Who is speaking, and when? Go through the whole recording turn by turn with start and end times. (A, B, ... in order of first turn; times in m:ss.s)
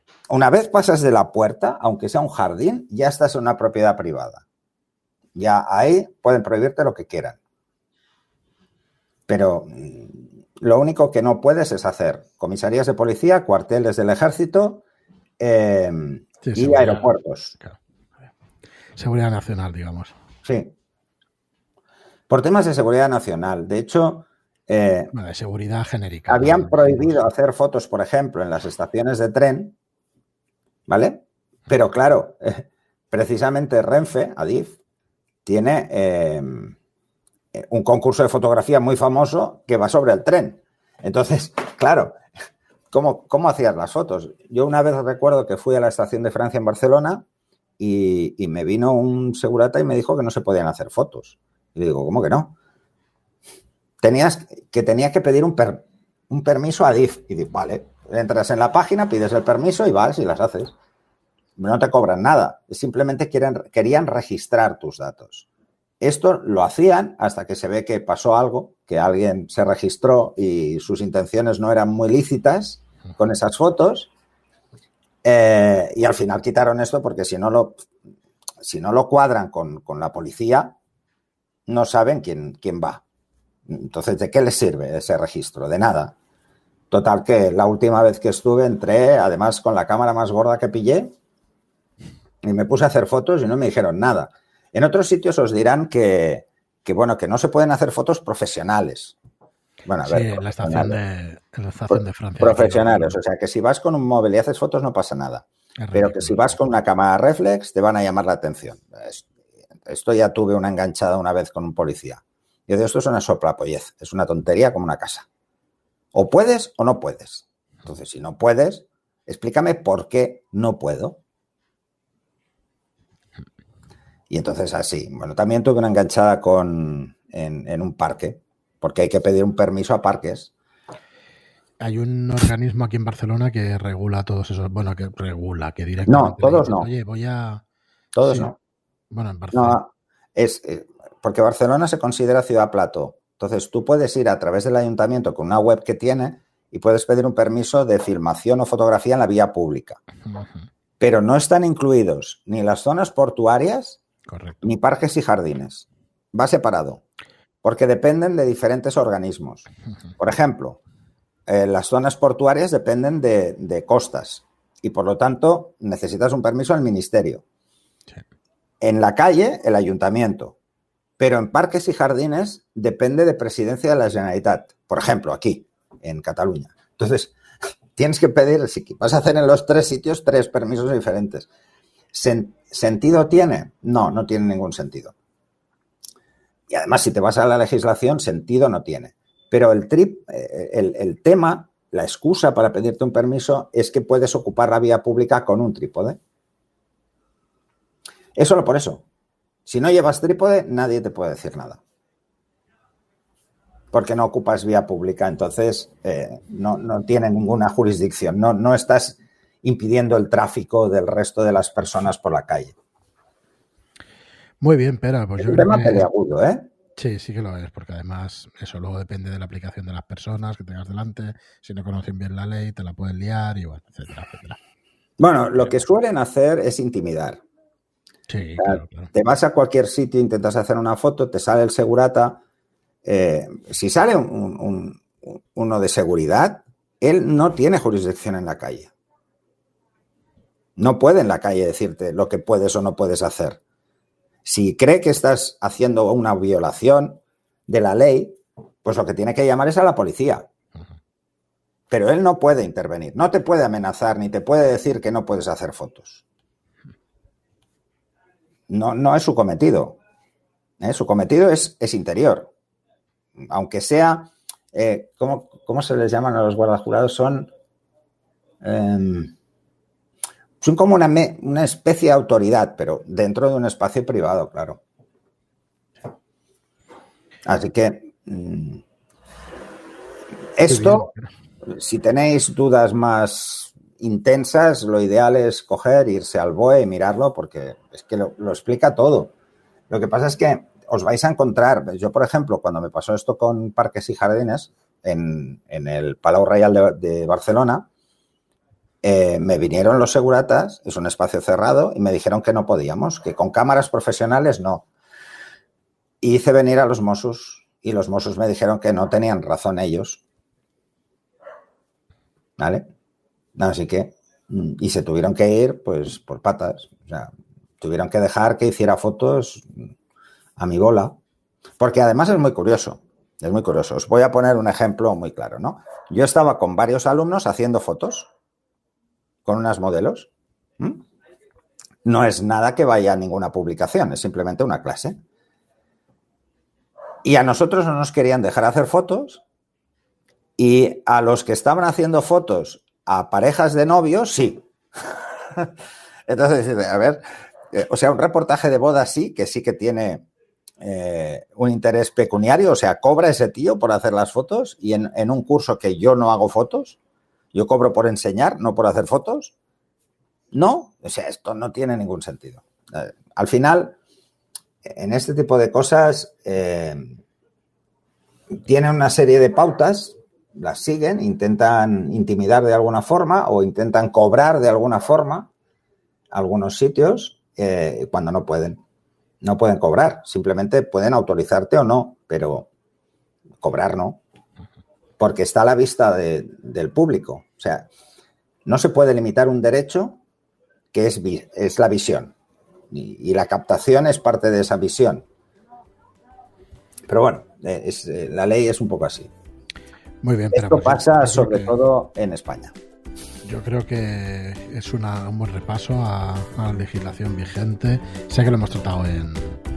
0:00.3-0:04.4 A
0:05.4-0:07.4 A
0:09.3-0:14.8 A
0:15.4-0:17.6 A
0:16.4-0:17.8 B
0:19.0-0:20.1 B
0:20.4-0:20.7 A
0:22.3-0:25.1 A
0:25.1-0:27.2 B
0:26.3-0:29.8 A
0:30.9-0:34.8 A
0:35.4-0:36.7 A
0:37.5-0:42.2 A
0:42.9-0:47.2 A
0:47.8-0:52.5 A
0:54.0-1:00.7 A
1:01.6-1:05.5 A
1:06.0-1:14.1 A
1:15.2-1:17.9 A
1:18.6-1:20.8 A
1:21.7-1:23.0 A
1:23.7-1:26.2 A
1:26.9-1:31.2 A
1:32.4-1:39.2 A
1:39.8-1:41.0 A
1:40.0-1:43.2 B
1:41.9-1:49.3 A
1:45.8-1:46.6 B
1:49.9-1:55.3 A
1:56.1-2:01.2 A
2:04.3-2:10.5 A
2:11.8-2:17.6 B
2:16.1-2:16.9 A
2:18.2-2:18.6 A
2:18.2-2:18.5 B
2:19.1-2:19.8 B
2:19.5-2:30.0 A
2:30.2-2:30.6 B
2:31.0-2:34.0 A
2:34.3-2:34.6 B
2:34.6-2:37.0 A
2:37.6-2:39.7 A
2:40.2-2:40.8 A
2:41.5-2:47.4 A
2:48.8-2:50.6 A
2:51.2-2:57.3 A
2:58.0-3:01.5 A
3:02.1-3:05.2 A
3:06.7-3:16.2 A
3:18.4-3:19.1 A
3:19.7-3:21.8 A
3:23.9-3:32.8 A
3:34.6-3:36.1 B
3:35.4-3:36.7 A
3:37.0-3:44.6 B
3:45.2-3:47.4 A
3:48.3-3:49.1 B
3:48.6-3:52.4 A
3:53.0-3:58.9 A
4:00.8-4:03.6 A
4:04.4-4:10.5 A
4:11.9-4:16.2 A
4:18.7-4:20.0 A
4:20.8-4:22.5 A
4:23.4-4:27.5 A
4:28.6-4:29.3 A
4:30.6-4:34.8 A
4:37.5-4:38.8 A
4:40.6-4:41.1 A
4:40.7-4:41.2 B
4:41.7-4:49.3 A
4:49.9-4:57.9 A
4:59.0-5:04.9 A
5:06.2-5:10.2 A
5:12.6-5:12.8 A
5:13.6-5:19.9 A
5:20.6-5:21.2 A
5:21.8-5:28.3 A
5:29.4-5:31.0 A
5:32.0-5:35.2 A
5:37.2-5:39.4 A
5:40.6-5:44.6 A
5:46.3-5:50.2 A
5:50.8-5:57.0 A
5:57.5-5:59.5 A
6:00.5-6:04.0 A
6:04.8-6:07.2 A
6:08.6-6:15.5 A
6:16.3-6:18.8 A
6:19.4-6:22.7 A
6:23.6-6:24.2 A
6:25.2-6:27.9 A
6:28.6-6:30.2 A
6:30.9-6:32.4 A
6:32.9-6:35.2 A
6:37.1-6:39.3 A
6:40.2-6:41.7 B
6:40.5-6:42.7 A
6:43.4-6:49.6 B